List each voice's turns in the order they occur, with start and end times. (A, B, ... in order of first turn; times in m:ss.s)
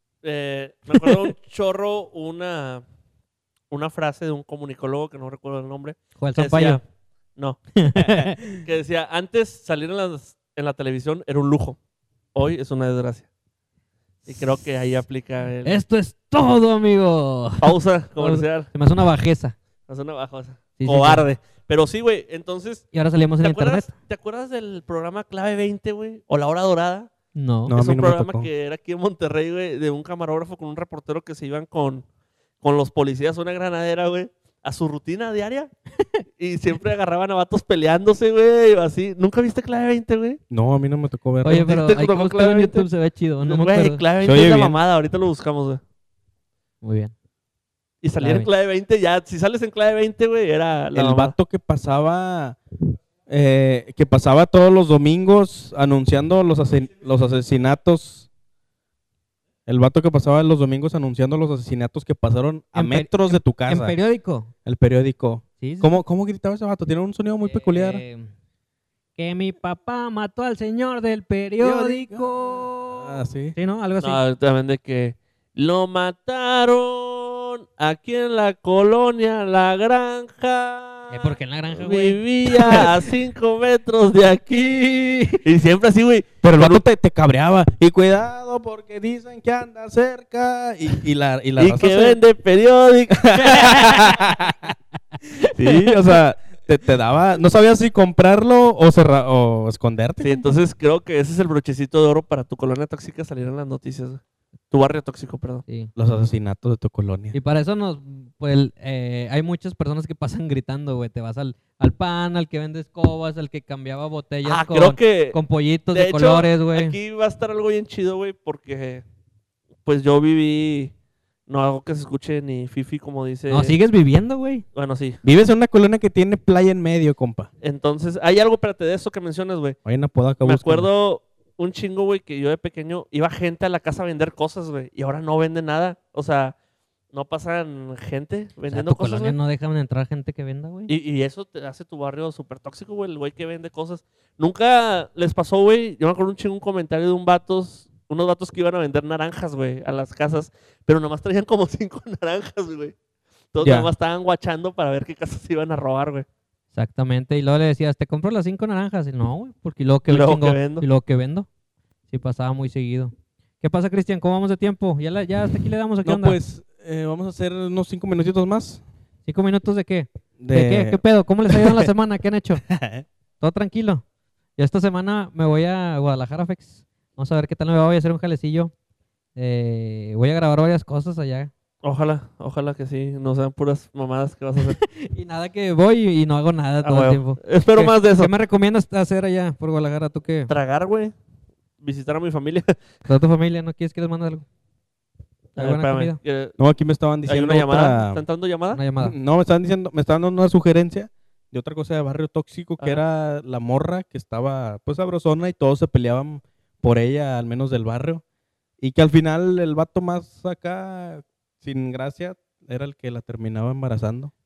0:00.2-0:02.8 A
0:00.9-0:01.3 B
0:03.7-0:06.8 A
0:06.2-0:06.8 B
0:07.4-0:11.8 A
0:07.8-0:08.6 B
0:12.4-0:13.3 A
0:14.3-0:15.8 A
0:15.6-0:19.6 B
0:17.6-0:18.7 A
0:19.9-0:27.1 A
0:20.8-0:21.3 B
0:22.9-0:23.9 B
0:27.4-0:27.7 B
0:27.7-0:28.5 C
0:27.7-0:32.0 A
0:32.6-0:35.7 A
0:36.4-0:40.4 A
0:40.5-0:41.8 C
0:41.4-0:44.0 B
0:41.5-0:42.9 A
0:43.4-0:45.8 A
0:44.2-0:44.8 C
0:46.8-0:47.1 B
0:48.0-0:51.4 A
0:48.2-0:48.5 B
0:50.9-0:52.6 C
0:53.3-0:58.3 C
0:59.7-1:04.0 C
1:02.7-1:04.5 B
1:04.7-1:08.0 C
1:05.6-1:06.0 B
1:07.4-1:08.3 B
1:09.2-1:14.2 B
1:11.6-1:13.6 C
1:14.0-1:24.8 A
1:21.1-1:22.9 B
1:24.5-1:25.4 B
1:25.4-1:26.8 A
1:26.4-1:32.2 C
1:31.6-1:33.8 A
1:33.2-1:34.7 C
1:33.6-1:34.2 B
1:35.6-1:40.4 C
1:40.2-1:45.6 A
1:46.0-1:47.4 C
1:47.3-1:57.0 B
1:54.4-1:55.4 A
1:55.9-1:59.0 A
1:59.8-2:00.9 A
2:01.5-2:03.8 A
2:03.5-2:04.6 B
2:04.7-2:05.2 A
2:05.2-2:07.5 C
2:07.6-2:09.8 A
2:09.8-2:10.9 C
2:10.4-2:16.6 A
2:17.1-2:19.4 A
2:18.7-2:20.9 B
2:20.9-2:33.0 A
2:33.5-2:36.3 A
2:33.6-2:33.9 C
2:36.8-2:41.5 B
2:40.1-2:40.9 A
2:42.1-2:46.4 B
2:46.0-2:48.8 C
2:49.3-2:52.6 B
2:50.4-2:51.9 C
2:52.7-2:53.0 C
2:53.4-2:54.0 B
2:54.6-2:58.7 B
2:59.4-3:01.5 B
3:01.8-3:04.8 A
3:04.6-3:10.5 B
3:06.8-3:08.3 A
3:10.5-3:11.1 A
3:11.8-3:12.8 A
3:13.1-3:14.4 B
3:15.6-3:16.6 A
3:15.6-3:16.2 B
3:16.6-3:18.2 C
3:17.3-3:18.8 A
3:18.7-3:19.2 B
3:19.0-3:28.2 C
3:28.8-3:34.3 C